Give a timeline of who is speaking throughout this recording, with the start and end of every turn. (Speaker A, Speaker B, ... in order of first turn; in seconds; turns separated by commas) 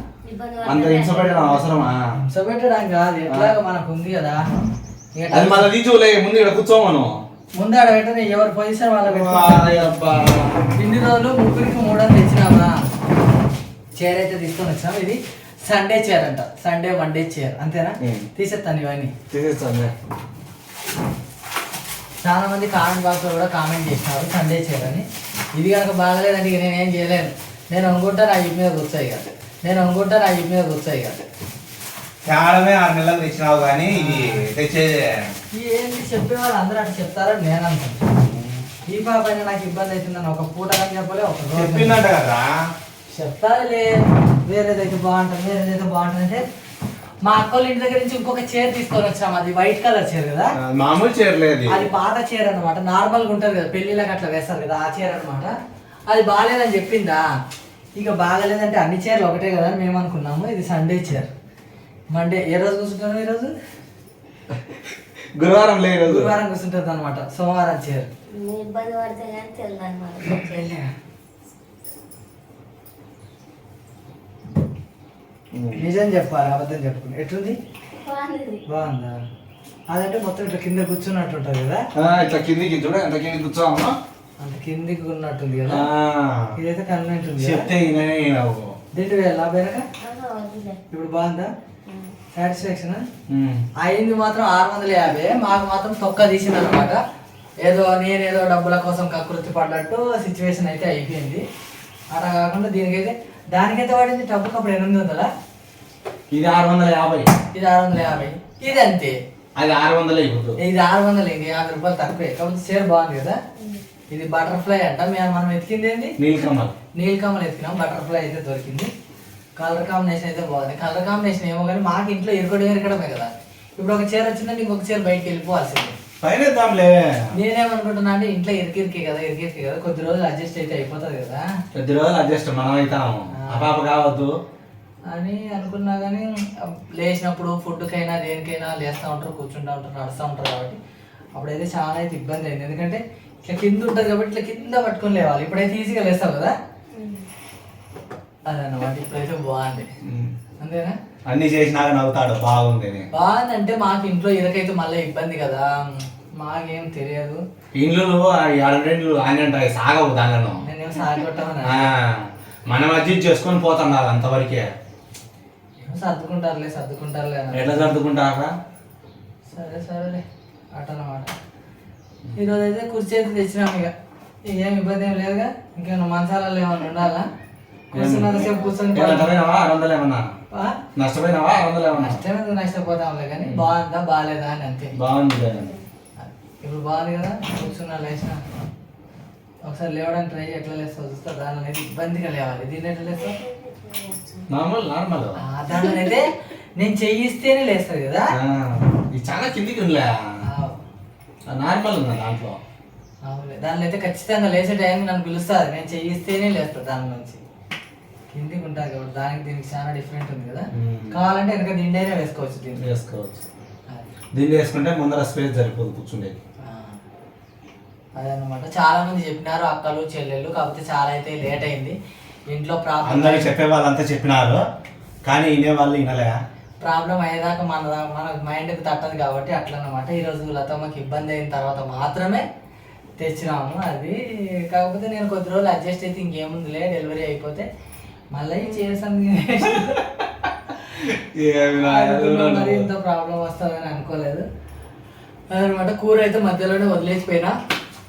Speaker A: 0.2-1.6, Speaker B: 0.6-2.1, Speaker C: 2.2-4.4, Speaker C: 5.2-5.7, Speaker B: 5.3-7.1, Speaker C: 7.5-9.9, Speaker B: 9.1-10.6, Speaker C: 10.7-12.8, Speaker C: 14.0-19.1, Speaker B: 18.0-18.3, Speaker B: 19.3-19.9, Speaker C: 22.2-25.1, Speaker C: 25.6-31.3, Speaker B: 32.3-35.3, Speaker C: 33.9-34.5, Speaker C: 35.5-38.1, Speaker B: 38.2-38.7, Speaker C: 38.9-42.0, Speaker B: 41.5-42.6, Speaker C: 43.1-46.4, Speaker C: 47.2-50.5, Speaker B: 50.6-51.9, Speaker C: 51.7-55.5, Speaker C: 56.1-57.2, Speaker C: 58.0-61.3, Speaker C: 62.1-63.5, Speaker B: 65.4-66.3, Speaker C: 66.1-68.1, Speaker A: 68.4-70.7, Speaker C: 70.3-70.9, Speaker B: 75.5-75.9, Speaker C: 75.8-77.6, Speaker A: 78.0-78.6, Speaker C: 78.7-79.2, Speaker C: 79.9-81.8, Speaker B: 82.0-84.0, Speaker C: 84.4-85.9, Speaker B: 85.7-86.5, Speaker C: 86.6-87.7, Speaker B: 87.4-88.8, Speaker C: 88.9-89.9, Speaker A: 90.0-90.8, Speaker C: 90.9-91.5, Speaker A: 91.9-92.1, Speaker C: 92.3-93.0, Speaker B: 93.3-93.7, Speaker C: 93.8-97.0, Speaker C: 97.6-101.4, Speaker C: 102.1-105.3, Speaker B: 106.3-107.3, Speaker C: 107.5-109.2, Speaker B: 109.6-110.6, Speaker C: 110.6-113.4, Speaker C: 114.1-116.1, Speaker B: 116.2-116.7, Speaker C: 117.0-118.9, Speaker C: 119.6-126.0, Speaker B: 126.2-127.3, Speaker C: 127.3-131.5, Speaker B: 131.7-134.3, Speaker C: 133.3-133.8, Speaker C: 135.1-140.8, Speaker C: 141.4-146.5, Speaker A: 146.9-147.3, Speaker C: 148.5-149.9, Speaker B: 150.1-150.3, Speaker C: 150.6-151.0, Speaker B: 151.3-153.1, Speaker C: 153.1-157.4, Speaker B: 157.7-160.7, Speaker C: 160.6-161.9, Speaker B: 161.7-164.7, Speaker C: 165.8-167.9, Speaker B: 167.5-168.5, Speaker C: 169.5-171.3, Speaker C: 172.3-173.9, Speaker C: 174.5-177.3, Speaker C: 177.9-179.4, Speaker B: 177.9-180.3, Speaker A: 178.4-179.2, Speaker C: 180.5-180.8, Speaker B: 181.0-182.2, Speaker C: 181.9-184.9, Speaker B: 183.4-183.7, Speaker B: 185.0-185.7, Speaker A: 185.4-185.8, Speaker C: 186.2-188.4, Speaker C: 189.7-193.4, Speaker A: 193.0-194.5, Speaker B: 194.5-195.4, Speaker C: 195.4-198.3, Speaker A: 195.7-196.1, Speaker B: 198.3-200.1, Speaker C: 200.4-200.8, Speaker B: 201.5-202.6, Speaker C: 203.2-207.4, Speaker C: 208.3-212.8, Speaker B: 210.7-211.2, Speaker B: 212.8-213.4, Speaker B: 214.3-216.4, Speaker C: 216.6-217.0, Speaker C: 218.2-222.0, Speaker C: 222.5-223.5, Speaker B: 223.1-224.6, Speaker B: 225.2-226.4, Speaker C: 226.8-232.4, Speaker C: 233.2-237.7, Speaker C: 238.3-240.1, Speaker B: 241.0-242.9, Speaker C: 241.7-244.4, Speaker C: 245.5-247.6